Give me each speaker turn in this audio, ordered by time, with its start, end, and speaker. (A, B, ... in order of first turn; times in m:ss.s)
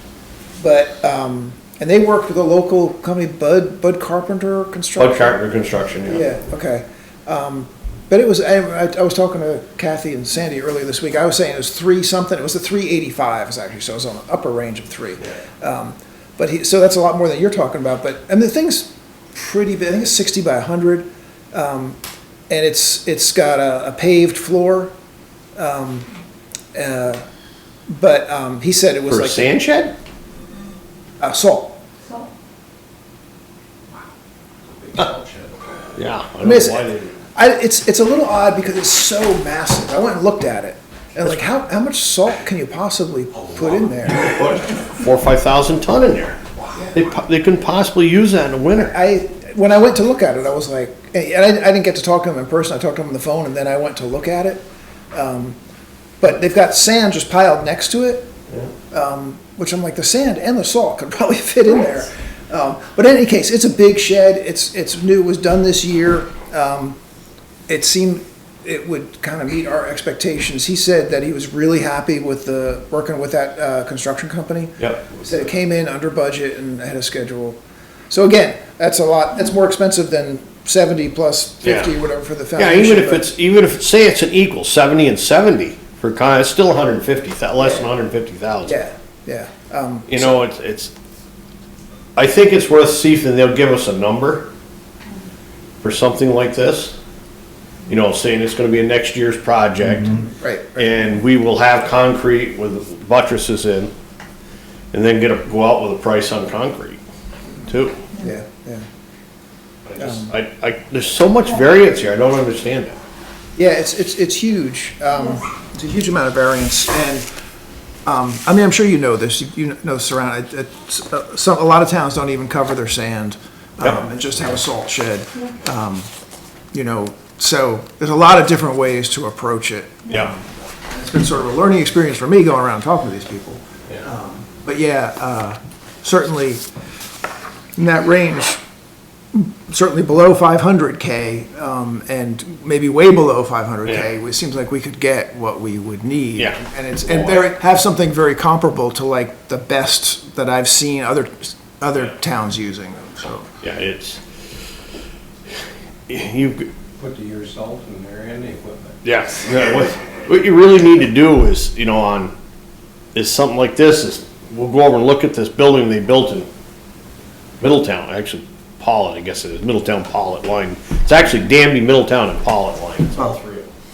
0:00.6-0:05.4 A
0:05.0-0:06.4 B
0:06.1-0:22.0 A
0:22.5-0:24.9 A
0:25.6-0:26.1 A
0:26.7-0:27.2 A
0:27.9-0:29.6 A
0:29.1-0:29.9 B
0:31.2-0:31.8 A
0:34.7-0:35.6 C
0:36.0-0:37.2 B
0:36.4-0:44.6 A
0:44.2-0:46.4 B
0:46.9-0:48.9 B
0:48.7-0:55.6 A
0:56.2-0:58.3 A
0:58.9-1:07.0 A
1:07.7-1:17.6 A
1:14.8-1:15.1 B
1:18.1-1:23.3 A
1:21.6-1:21.9 B
1:22.6-1:28.8 B
1:27.6-1:27.9 A
1:28.7-1:30.4 A
1:30.1-1:30.9 B
1:32.2-1:34.5 B
1:35.8-1:37.0 B
1:37.9-1:43.9 B
1:40.3-1:40.9 A
1:44.9-1:47.0 B
1:47.6-1:48.1 B
1:48.2-1:48.9 A
1:49.9-1:53.0 B
1:50.0-1:50.3 A
1:53.6-1:57.3 A
1:58.1-2:06.1 A
2:06.7-2:16.6 A
2:17.8-2:18.6 A
2:19.3-2:33.5 A
2:26.4-2:27.5 B
2:33.6-2:34.2 B
2:36.1-2:36.7 B
2:37.0-2:39.0 C
2:39.0-2:42.3 B
2:43.2-2:46.5 B
2:47.6-2:53.7 B